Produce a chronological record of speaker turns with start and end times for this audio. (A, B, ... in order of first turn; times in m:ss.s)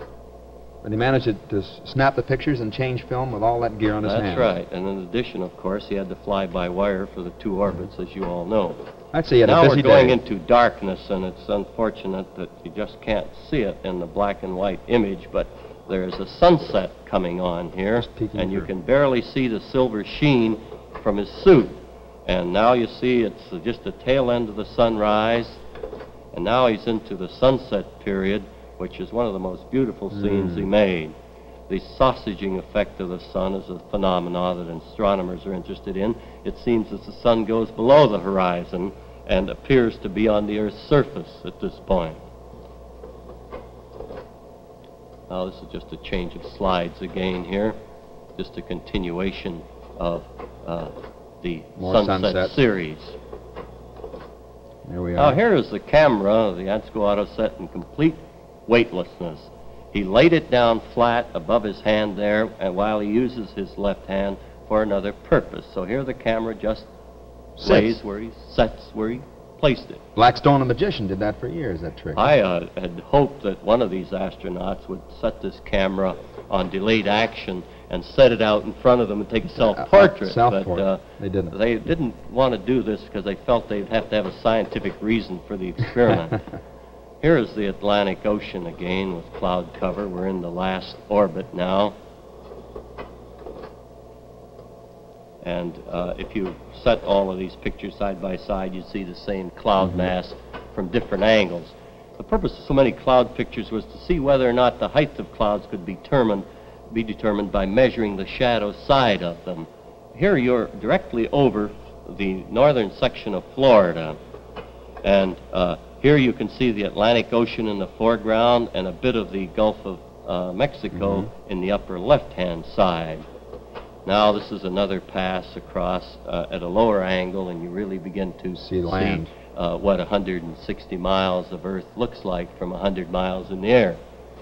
0:00.8-0:04.5 A
0:04.0-0:08.8 B
0:09.1-0:10.2 A
0:09.4-0:25.6 B
0:18.0-0:18.7 A
0:26.3-0:31.2 B
0:30.1-0:30.7 A
0:31.7-0:42.2 B
0:45.3-0:47.8 B
0:48.4-0:53.2 B
0:51.8-0:52.6 A
0:54.8-0:55.4 A
0:55.2-1:06.9 B
1:07.6-1:08.0 A
1:07.6-1:10.0 B
1:10.2-1:12.3 A
1:12.2-1:26.4 B
1:19.6-1:21.5 A
1:27.2-1:32.0 B
1:35.4-1:54.2 B
1:39.8-1:40.1 A
1:55.0-2:03.2 B
2:00.9-2:01.3 A
2:04.0-2:14.0 B
2:08.6-2:09.3 A